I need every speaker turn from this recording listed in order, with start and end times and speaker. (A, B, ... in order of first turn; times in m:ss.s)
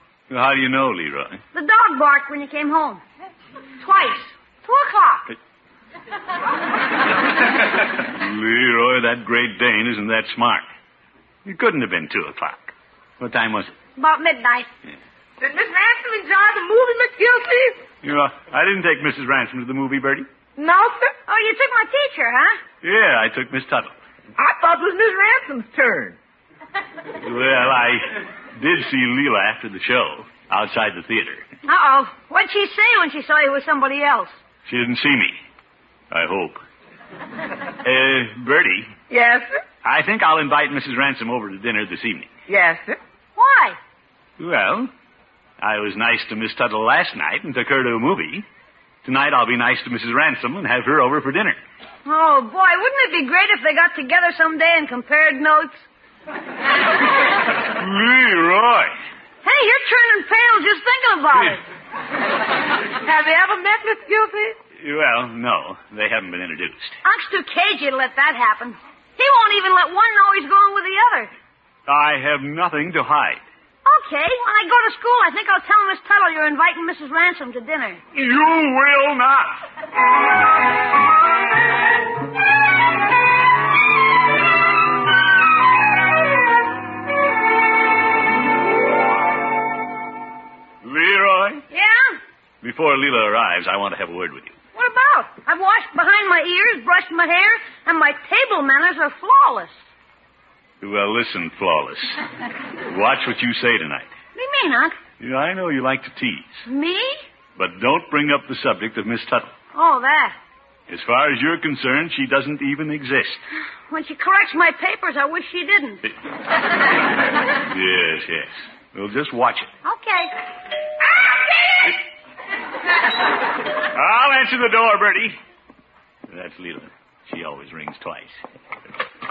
0:00.3-0:01.4 A
0:01.5-0:03.0 B
0:03.8-0:04.9 B
0:08.0-0:10.6 A
0:11.4-0:13.8 A
0:14.0-0:14.7 B
0:15.4-0:17.8 C
0:18.0-0:20.3 A
0:20.6-0:21.1 C
0:21.3-0:22.6 B
0:22.8-0:23.9 A
0:24.4-0:26.2 C
0:27.2-0:31.5 A
0:31.6-0:34.3 B
0:34.7-0:35.4 A
0:36.1-0:36.6 A
0:37.8-0:38.9 A
0:39.1-0:39.5 C
0:39.8-0:42.3 A
0:42.5-0:43.0 C
0:43.4-0:43.8 B
0:44.4-0:44.9 A
0:45.6-0:48.5 A
0:49.0-0:51.6 A
0:52.0-0:55.8 B
0:57.8-0:58.9 A
0:59.4-1:01.6 B
1:03.0-1:04.6 C
1:04.8-1:07.0 A
1:07.0-1:11.3 B
1:11.9-1:13.4 A
1:13.8-1:18.0 B
1:18.1-1:19.6 A
1:30.8-1:31.6 A
1:31.7-1:32.2 B
1:32.6-1:34.6 A
1:34.8-1:39.7 B
1:40.8-1:42.2 A
1:42.9-1:44.1 A
1:44.4-1:45.0 B
1:45.2-1:46.6 A
1:46.7-1:47.2 B
1:47.6-1:49.6 A
1:49.7-1:50.4 B
1:50.9-1:53.4 A
1:53.9-1:56.0 B
1:57.6-1:59.7 A
1:59.8-2:00.3 B
2:03.9-2:05.4 A
2:06.3-2:08.4 A